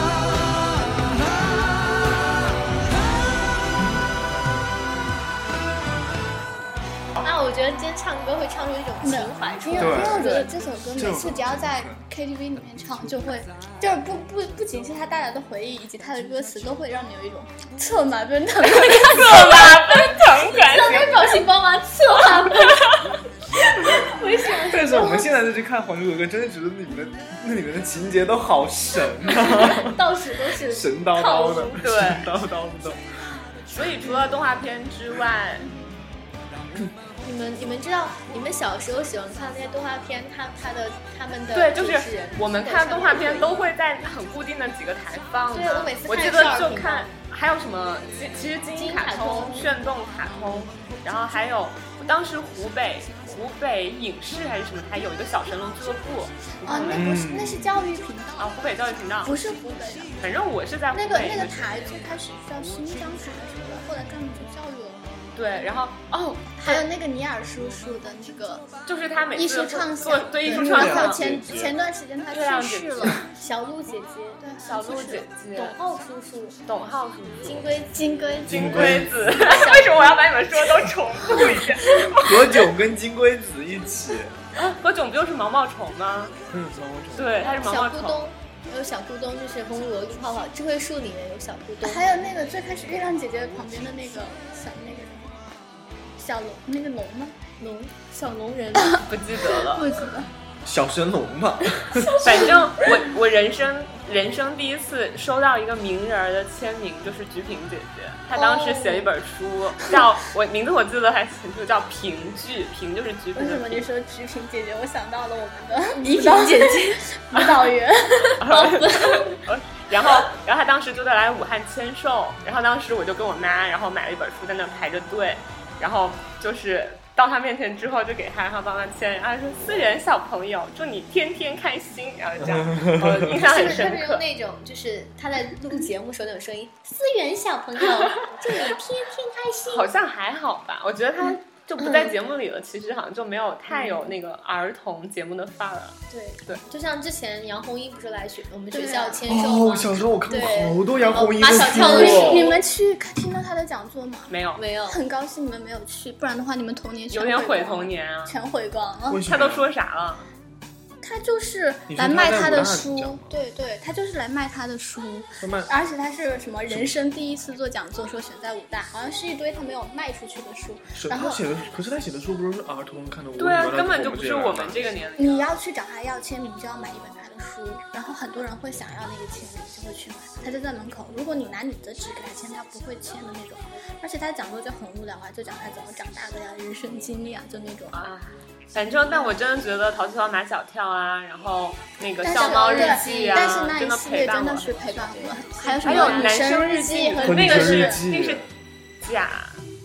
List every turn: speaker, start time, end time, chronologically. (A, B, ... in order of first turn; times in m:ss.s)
0:07.2-0:10.4 A
0:09.0-0:20.0 B
0:09.8-0:10.4 C
0:10.9-0:12.0 C
0:18.6-0:21.4 D
0:20.5-0:22.9 A
0:22.5-0:23.0 D
0:23.6-0:25.3 A
0:24.7-0:30.0 C
0:29.5-0:31.8 A
0:30.7-0:33.0 C
0:31.8-0:32.3 D
0:33.7-0:35.7 D
0:37.2-0:43.6 A
0:41.5-0:57.2 D
0:45.5-0:47.1 A
0:48.7-0:49.7 A
0:56.6-0:58.6 B
0:56.9-0:57.7 C
0:58.4-0:59.4 D
0:59.2-1:00.2 B
1:00.2-1:02.1 D
1:00.9-1:05.2 B
1:05.4-1:06.8 D
1:06.6-1:08.7 B
1:08.8-1:11.3 D
1:09.3-1:13.2 B
1:10.4-1:11.7 C
1:12.3-1:13.2 D
1:13.4-1:14.4 A
1:14.4-1:15.3 B
1:14.6-1:15.8 D
1:15.5-1:16.6 A
1:16.7-1:17.6 D
1:17.4-1:20.3 A
1:18.0-1:18.8 B
1:18.5-1:19.7 C
1:18.5-1:22.6 D
1:22.1-1:24.3 C
1:24.6-1:26.3 D
1:26.5-1:27.6 C
1:27.1-1:28.3 D
1:27.4-1:32.0 A
1:31.8-1:35.4 B
1:36.2-1:37.4 B
1:37.6-1:39.0 A
1:38.8-1:40.3 B
1:39.0-1:39.9 D
1:40.6-1:42.2 C
1:42.2-1:53.8 D
1:48.3-1:49.1 A
1:53.4-1:58.8 B
1:56.0-1:57.0 A
1:58.4-2:14.2 D
1:58.5-1:59.2 A
2:12.4-2:13.4 C
2:13.3-2:19.9 A
2:19.7-2:26.6 D
2:21.8-2:22.1 A
2:23.7-2:24.1 A
2:26.1-2:32.6 A
2:28.7-2:29.2 B
2:29.3-2:32.5 C
2:31.4-2:39.2 B
2:34.3-2:34.6 D
2:34.6-2:35.0 A
2:37.1-2:38.3 D
2:39.1-2:39.6 C
2:39.2-2:40.3 D
2:41.0-2:51.4 B
2:41.9-2:43.3 C
2:45.4-2:45.7 C
2:46.7-2:46.9 C
2:51.0-2:55.0 C
2:53.4-2:55.5 D
2:55.2-3:08.0 B
3:07.9-3:15.2 D
3:12.2-3:18.0 B
3:12.3-3:13.7 A
3:15.5-3:16.5 A
3:15.8-3:18.5 D
3:17.2-3:18.4 C
3:19.0-3:19.6 D